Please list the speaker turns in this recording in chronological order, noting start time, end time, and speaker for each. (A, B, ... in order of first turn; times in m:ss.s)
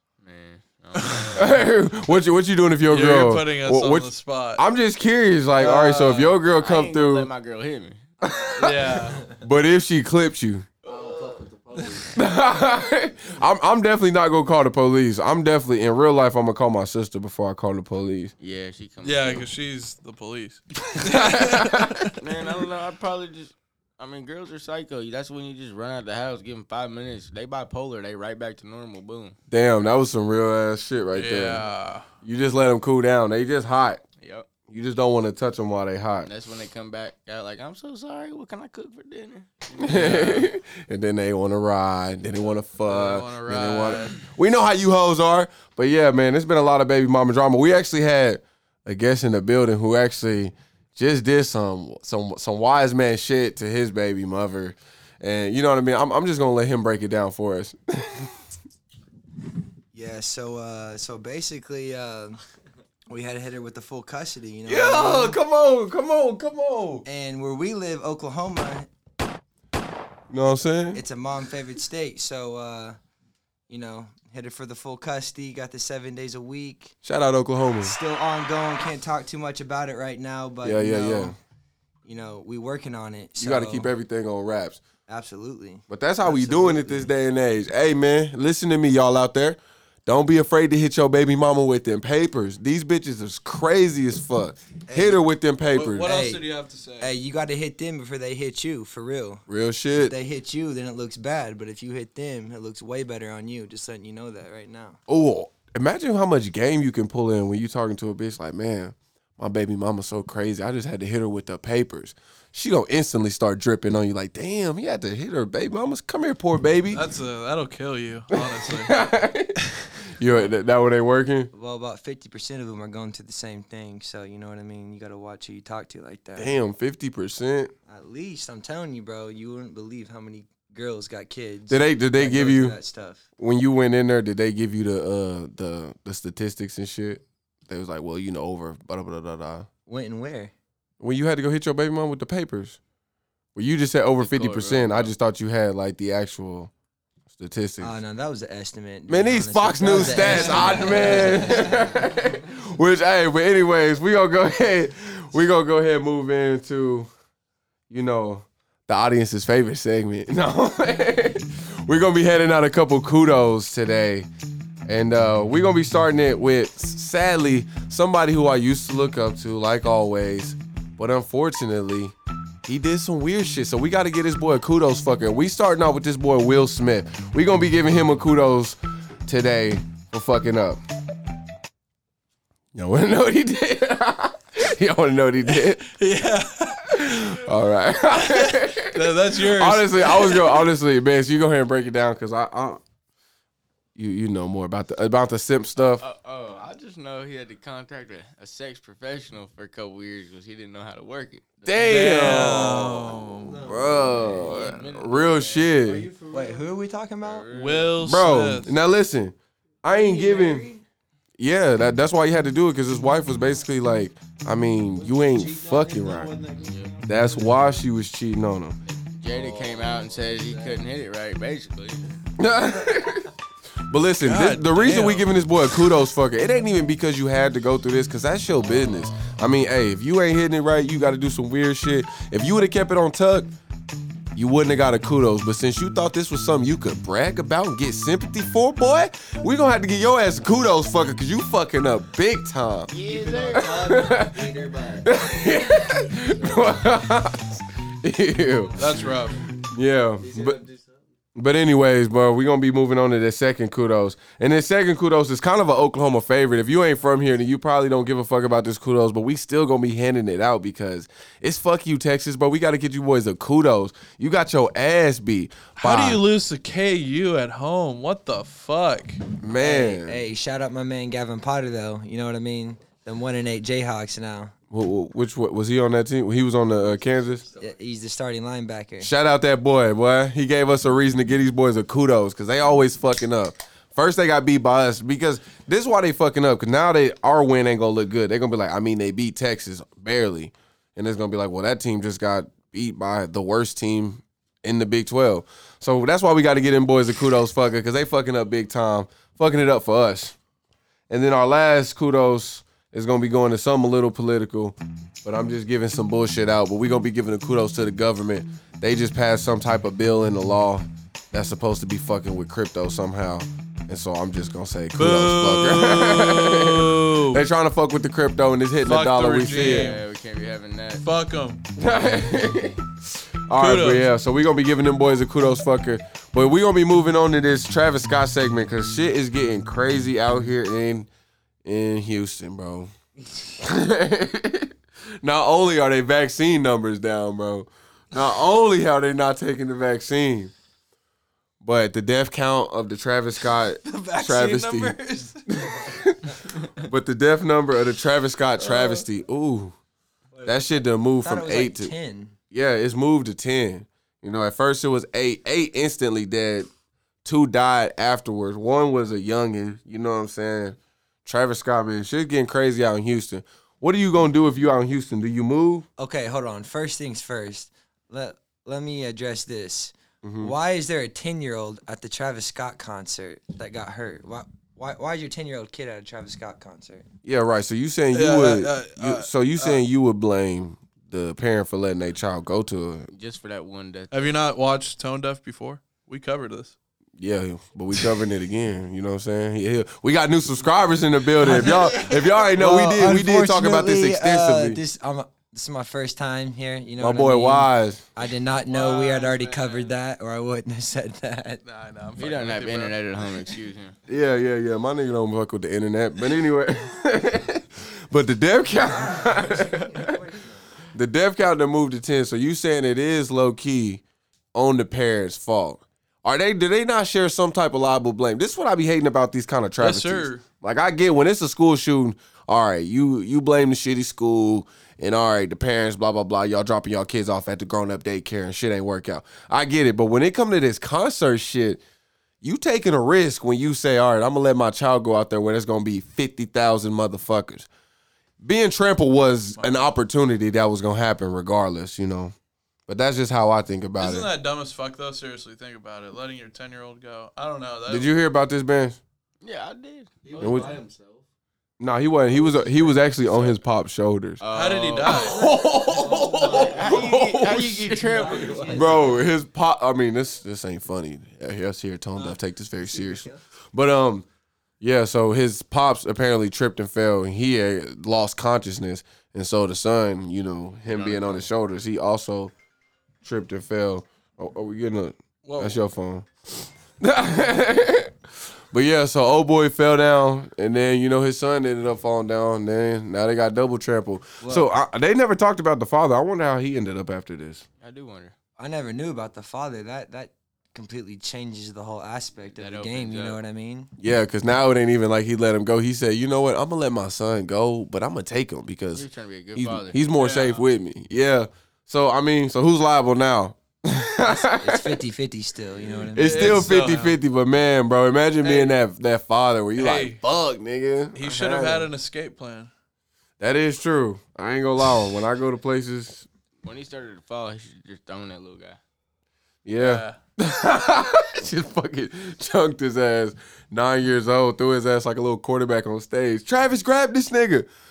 0:00.2-0:01.6 A
0:00.9-0:01.4 B
0:01.3-0:07.3 C
0:02.9-0:04.6 B
0:05.6-0:08.0 A
0:08.2-0:10.7 C
0:08.6-0:09.3 B
0:10.8-0:12.2 D
0:12.1-0:18.3 C
0:18.4-0:19.5 A
0:19.0-0:22.2 B
0:21.0-0:22.1 C
0:22.2-0:29.4 A
0:29.5-0:31.6 C
0:31.1-0:32.1 B
0:32.2-0:34.0 C
0:34.2-0:34.5 A
0:34.7-0:36.3 C
0:36.2-0:40.4 A
0:39.8-0:58.4 C
0:39.9-0:40.4 B
0:42.8-0:44.2 B
0:59.9-1:02.4 E
1:03.1-1:05.4 E
1:04.7-1:07.0 C
1:07.0-1:08.9 E
1:10.3-1:11.0 C
1:10.9-1:13.0 E
1:13.7-1:16.9 E
1:17.0-1:17.9 C
1:17.8-1:21.3 E
1:20.6-1:21.4 C
1:22.0-1:23.9 E
1:23.4-1:24.8 C
1:25.1-1:27.1 E
1:25.9-1:36.1 C
1:34.9-1:35.2 E
1:35.7-1:37.1 B
1:36.0-1:36.4 E
1:37.0-1:45.0 E
1:39.5-1:40.1 C
1:45.1-1:57.0 C
1:56.9-1:58.9 B
1:58.3-2:01.5 C
2:01.5-2:06.5 E
2:06.4-2:07.7 C
2:07.9-2:13.2 E
2:11.7-2:12.8 C
2:13.4-2:19.7 C
2:19.8-2:20.5 E
2:21.0-2:22.8 C
2:23.5-2:26.7 C
2:24.2-2:25.1 A
2:27.3-2:27.9 C
2:27.8-2:31.9 E
2:29.1-2:37.1 C
2:37.9-2:44.3 C
2:44.8-2:52.1 C
2:52.6-3:00.8 C
3:02.7-3:05.8 C
3:05.5-3:07.4 B
3:06.9-3:12.8 C
3:08.1-3:10.7 B
3:13.9-3:16.0 C
3:16.0-3:22.6 A
3:21.6-3:23.1 C
3:21.8-3:23.6 B
3:23.2-3:24.5 D
3:23.6-3:26.1 C
3:24.3-3:25.7 A
3:25.7-3:26.7 D
3:26.3-3:27.5 E
3:27.2-3:27.9 A
3:27.5-3:28.7 B
3:28.0-3:30.7 C
3:29.9-3:30.8 E
3:31.4-3:36.4 C
3:34.9-3:37.8 D
3:36.6-3:36.9 A
3:37.0-3:38.8 C
3:38.8-3:42.1 A
3:39.3-3:40.8 D
3:42.4-3:43.3 C
3:43.9-3:53.5 C
3:44.2-3:45.3 B
3:54.3-4:02.9 C
4:02.9-4:04.0 A
4:02.9-4:05.6 D
4:03.5-4:10.6 C
4:06.1-4:06.9 D
4:08.4-4:09.3 D
4:08.8-4:09.4 B
4:10.2-4:11.1 D
4:11.3-4:26.2 C
4:25.8-4:29.2 B
4:29.4-4:30.2 C
4:29.5-4:34.5 E
4:34.7-4:37.4 C
4:36.6-4:37.8 D
4:37.6-4:39.1 E
4:39.0-5:00.3 C
5:01.1-5:19.9 C
5:14.9-5:17.4 B
5:18.8-5:20.0 B
5:19.5-5:21.0 A
5:21.0-5:21.6 B
5:21.8-5:22.8 C
5:23.5-5:31.1 C
5:23.6-5:24.0 B
5:31.6-5:32.9 C
5:33.6-5:40.5 C
5:41.6-5:45.0 C
5:43.8-5:46.0 E
5:45.5-5:49.7 C
5:48.6-5:49.0 E
5:50.3-5:52.4 E
5:50.4-5:51.9 C
5:52.5-5:56.7 C
5:57.2-6:05.8 C
6:06.0-6:17.1 E
6:10.2-6:10.5 C
6:17.2-6:23.1 C
6:18.1-6:19.8 B
6:23.1-6:24.2 A
6:24.1-6:26.8 B
6:27.2-6:34.8 C
6:31.4-6:41.6 E
6:37.0-6:38.0 C
6:38.7-6:39.9 B
6:41.6-6:43.5 B
6:42.2-6:44.0 A
6:44.1-6:50.1 C
6:48.8-6:50.7 E
6:50.9-6:54.0 C
6:54.5-7:11.8 C
6:59.8-7:00.4 B
7:12.4-7:17.7 C
7:18.4-7:22.3 C
7:22.9-7:24.3 C
7:24.0-7:28.1 B
7:27.9-7:29.0 C
7:29.4-7:30.3 A
7:30.2-7:31.2 D
7:30.4-7:30.8 C
7:31.8-7:34.4 C
7:32.2-7:33.6 D
7:34.4-7:35.3 A
7:34.5-7:35.5 B
7:35.0-7:38.1 C
7:35.3-7:39.2 D
7:35.9-7:36.8 E
7:36.4-7:38.8 A
7:38.1-7:39.2 E
7:38.7-7:44.2 C
7:42.2-7:43.4 E
7:44.8-7:52.5 C
7:50.9-7:51.4 A
7:53.2-7:56.3 C
7:55.4-7:55.8 B
7:57.0-7:58.1 C
7:58.7-8:07.6 C
8:04.4-8:04.7 E
8:07.8-8:08.3 A
8:08.6-8:13.9 E
8:12.6-8:13.4 A
8:14.0-8:25.0 C
8:18.9-8:20.0 A
8:20.1-8:20.6 B
8:24.2-8:26.7 E
8:26.1-8:31.9 C
8:26.2-8:27.2 B
8:28.4-8:28.7 B
8:29.8-8:30.2 B
8:31.1-8:32.7 B
8:33.4-8:36.3 C
8:36.6-8:38.8 A
8:39.6-8:47.7 C
8:39.8-8:40.2 B